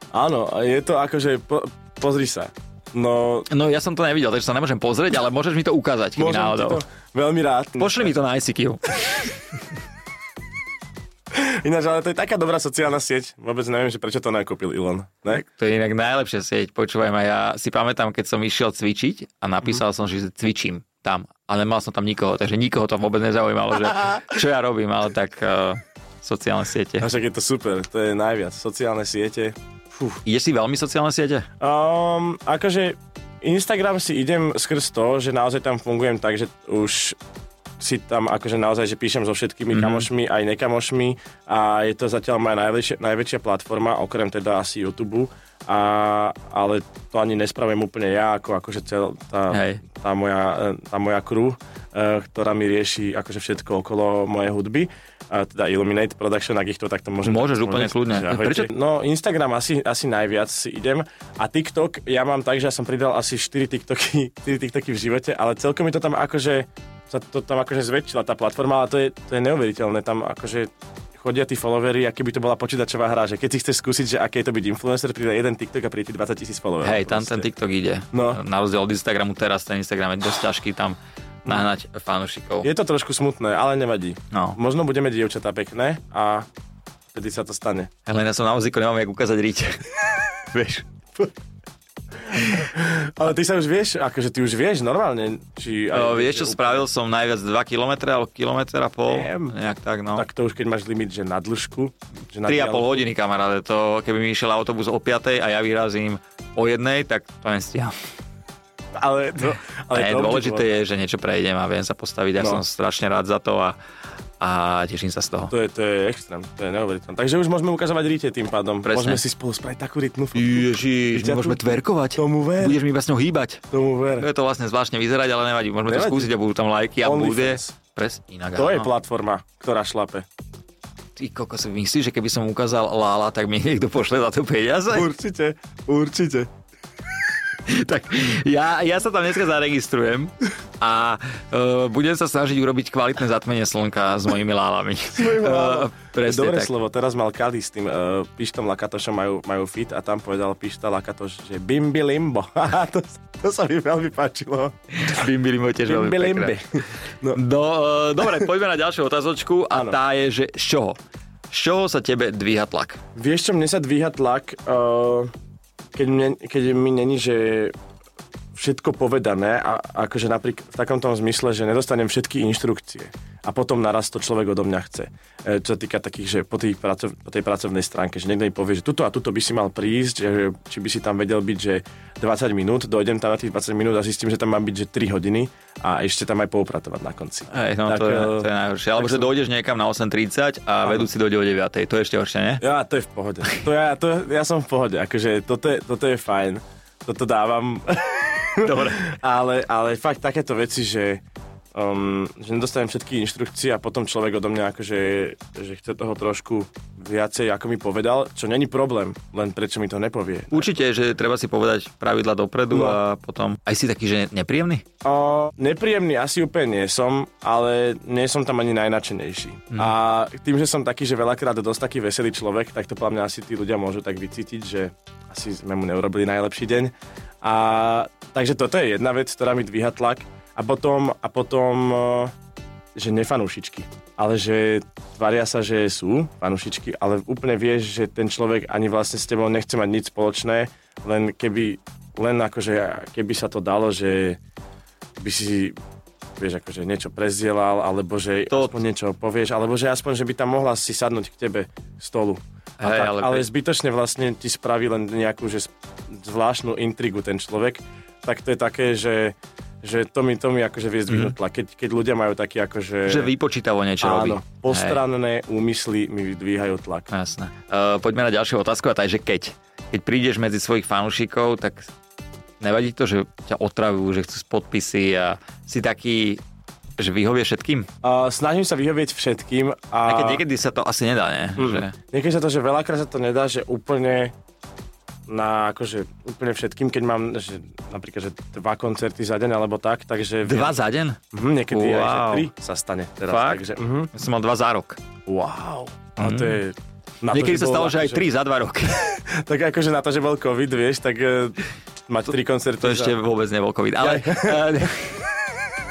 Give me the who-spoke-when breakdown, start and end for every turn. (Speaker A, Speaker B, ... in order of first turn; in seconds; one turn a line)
Speaker A: 0.1-3.5
Speaker B: 3.5-6.8
Speaker A: 6.2-8.1
Speaker B: 7.8-9.3
Speaker A: 11.3-15.4
Speaker B: 15.3-27.1
Speaker A: 27.0-30.2
Speaker B: 30.2-31.5
Speaker A: 31.6-37.2
Speaker A: 37.8-77.5
Speaker B: 39.7-40.1
Speaker B: 49.5-49.8
Speaker B: 57.2-58.7
Speaker B: 76.8-82.7
Speaker A: 78.1-78.4
Speaker A: 82.6-86.5
Speaker B: 84.3-84.6
Speaker A: 87.1-87.9
Speaker B: 88.1-89.8
Speaker B: 90.5-90.9
Speaker A: 92.3-96.8
Speaker B: 92.4-92.7
Speaker B: 95.9-100.2
Speaker A: 99.1-99.5
Speaker A: 100.1-103.0
Speaker B: 102.4-107.9
Speaker A: 109.0-110.7
Speaker B: 109.9-113.8
Speaker B: 114.4-115.5
Speaker A: 115.5-122.8
Speaker B: 118.8-119.2
Speaker B: 120.3-123.6
Speaker A: 123.7-124.3
Speaker B: 124.2-128.9
Speaker A: 125.9-126.3
Speaker A: 127.0-127.7
Speaker A: 128.6-130.2
Speaker B: 131.2-135.1
Speaker A: 134.9-136.5
Speaker B: 137.6-146.7
Speaker A: 145.1-154.7
Speaker B: 154.9-156.6
Speaker A: 155.8-157.4
Speaker B: 157.3-161.0
Speaker A: 159.7-160.0
Speaker B: 161.5-163.0
Speaker A: 163.1-165.3
Speaker A: 165.9-167.7
Speaker A: 168.5-189.3
Speaker B: 187.5-192.6
Speaker A: 190.8-191.1
Speaker A: 192.6-201.2
Speaker B: 198.6-199.1
Speaker A: 201.7-210.7
Speaker B: 210.5-214.8
Speaker A: 212.7-213.0
Speaker A: 215.0-232.3
Speaker A: 232.9-244.4
Speaker A: 245.2-245.8
Speaker A: 246.4-263.3
Speaker B: 248.5-248.8
Speaker B: 252.8-253.5
Speaker B: 261.1-261.3
Speaker B: 263.1-265.0
Speaker A: 264.0-267.1
Speaker B: 267.1-271.9
Speaker B: 272.6-276.4
Speaker B: 277.0-277.9
Speaker A: 278.0-280.4
Speaker B: 280.0-281.9
Speaker A: 281.6-284.3
Speaker A: 285.3-290.8
Speaker B: 290.4-291.2
Speaker A: 291.3-294.1
Speaker B: 291.7-292.5
Speaker B: 293.3-295.0
Speaker A: 295.2-298.3
Speaker B: 296.2-296.6
Speaker B: 297.3-299.1
Speaker A: 299.0-303.2
Speaker B: 302.8-305.2
Speaker A: 304.0-305.1